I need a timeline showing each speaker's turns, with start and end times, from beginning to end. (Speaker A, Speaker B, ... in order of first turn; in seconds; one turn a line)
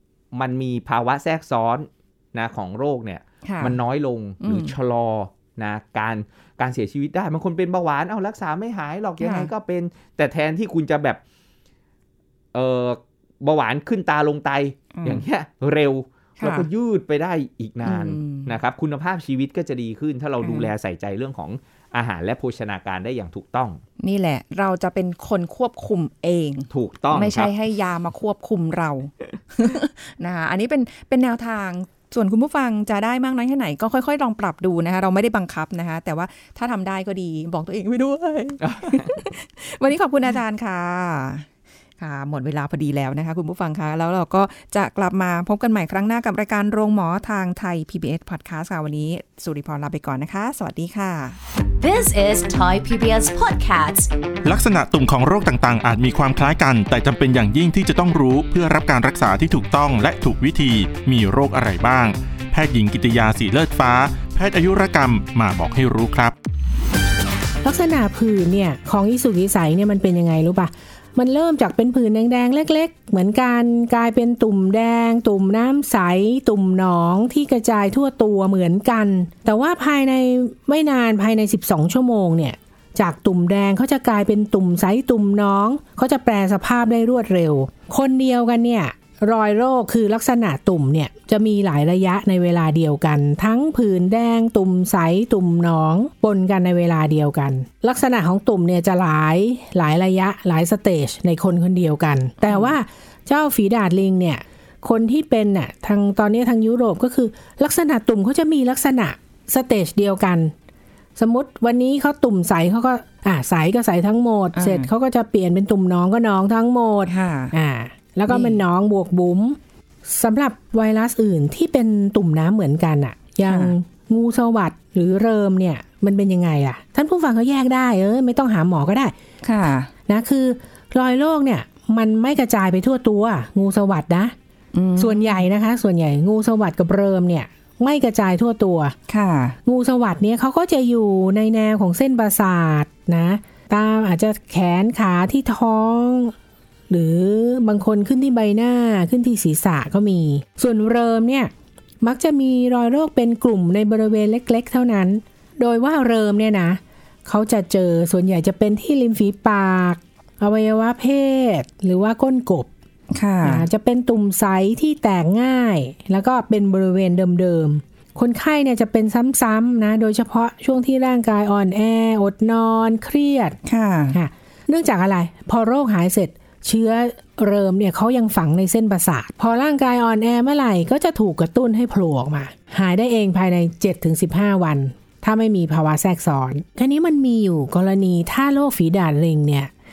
Speaker A: 0.3-11.2
Speaker B: 3.5-3.8
Speaker B: 4.4-4.7
Speaker B: 9.2-9.5
Speaker A: 12.5-23.8
Speaker B: 14.9-15.2
Speaker B: 16.4-16.7
Speaker B: 17.8-18.6
Speaker B: 20.4-20.7
Speaker B: 24.0-41.5
Speaker A: 26.7-27.5
Speaker A: 38.6-39.1
Speaker B: 42.0-51.4
Speaker C: 51.8-54.1
Speaker D: 54.5-66.3
Speaker E: 67.6-110.5
Speaker B: 102.5-102.8
Speaker E: 111.2-129.1
Speaker B: 114.5-114.9
Speaker B: 117.1-117.6
Speaker B: 118.3-118.6
Speaker B: 123.5-123.7
Speaker B: 129.4-129.9
Speaker E: 130.1-134.3
Speaker B: 134.7-135.4
Speaker E: 135.0-139.0
Speaker B: 139.1-139.6
Speaker E: 139.7-146.3
Speaker E: 146.9-151.5
Speaker E: 152.0-162.7
Speaker B: 163.1-163.7
Speaker E: 163.4-173.6
Speaker B: 173.7-174.2
Speaker E: 174.1-189.7